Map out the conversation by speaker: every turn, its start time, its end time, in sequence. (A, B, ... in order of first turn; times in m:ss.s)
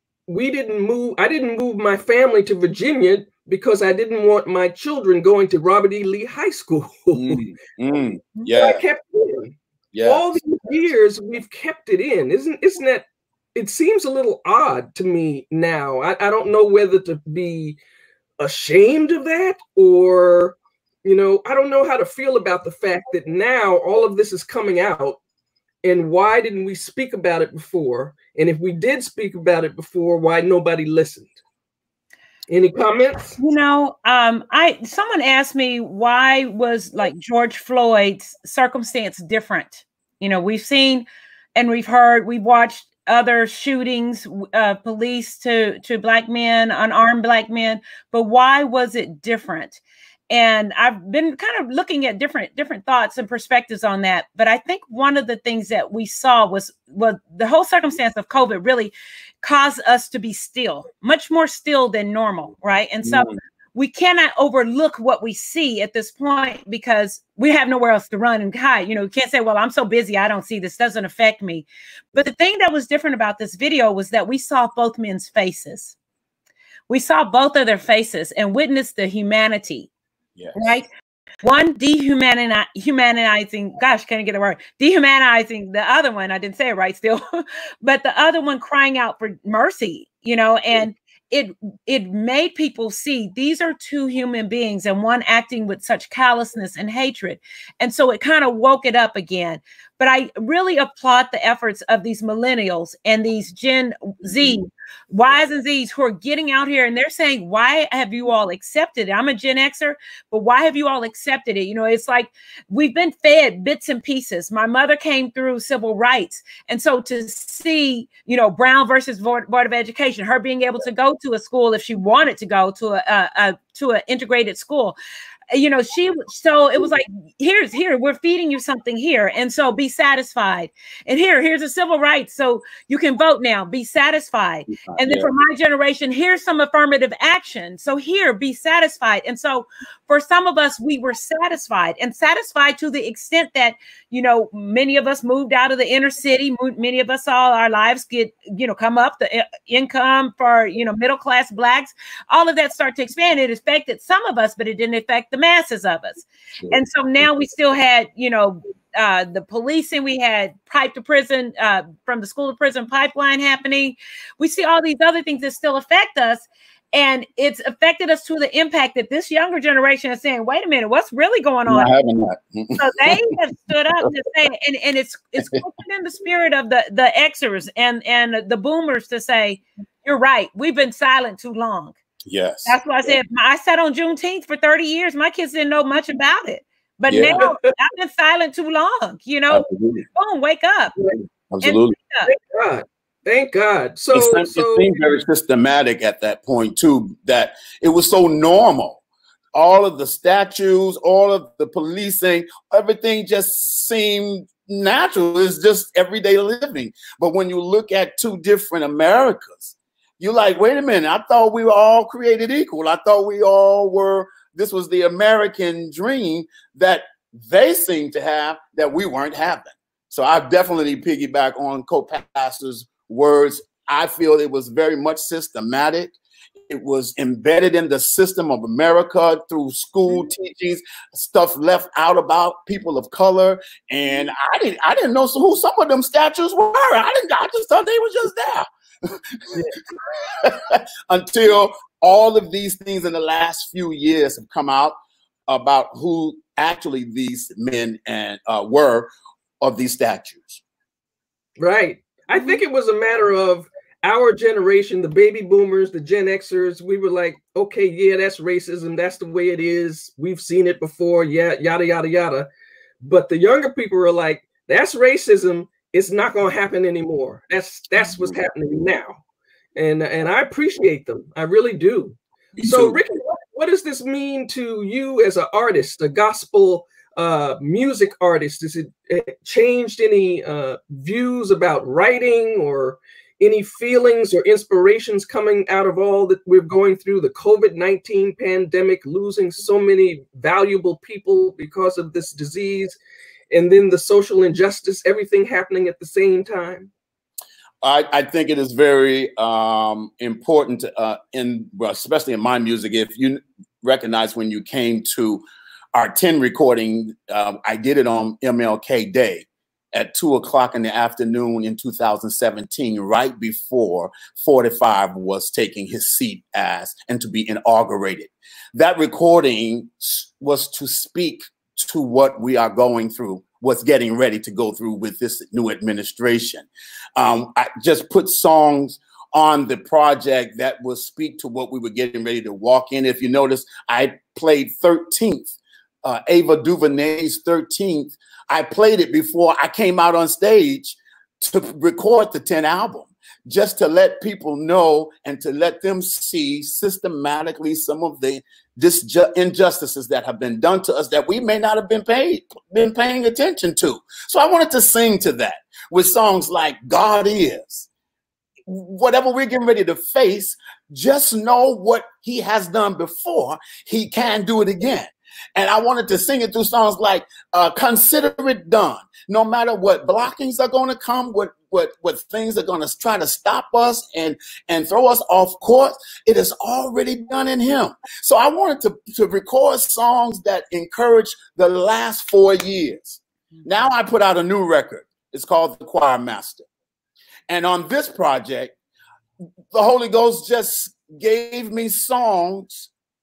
0:00.3-0:07.4 A
0:07.1-0:08.8 B
0:08.5-0:17.8 A
0:09.9-0:10.4 B
0:18.4-0:25.2 A
0:25.8-0:31.4 A
0:32.5-0:33.4 A
0:33.4-0:41.0 C
0:41.6-1:16.0 C
1:03.0-1:03.4 B
1:16.9-1:19.9 C
1:20.4-1:20.7 B
1:20.6-1:20.9 C
1:21.4-2:05.0 C
1:44.2-1:44.6 B
2:05.5-2:51.9 C
2:14.7-2:15.3 B
2:36.6-2:37.3 B
2:51.7-2:53.2 B
2:52.8-3:02.0 C
3:02.3-3:03.1 B
3:02.7-3:11.0 C
3:07.1-3:07.4 B
3:09.5-3:10.1 B
3:11.1-3:12.0 B
3:11.6-3:12.3 C
3:12.3-3:14.9 A
3:14.1-3:19.0 B
3:19.6-3:46.2 B
3:46.7-4:05.0 B
4:05.5-4:09.1 B
4:09.6-4:10.6 B
4:11.6-4:22.5 A
4:23.0-4:29.2 A
4:28.1-4:28.5 B
4:29.8-4:53.0 A
4:32.6-4:33.0 B
4:53.5-4:56.9 A
4:57.8-5:57.9 B
5:58.7-6:26.7 B
6:27.5-6:28.8 B
6:29.7-6:32.9 B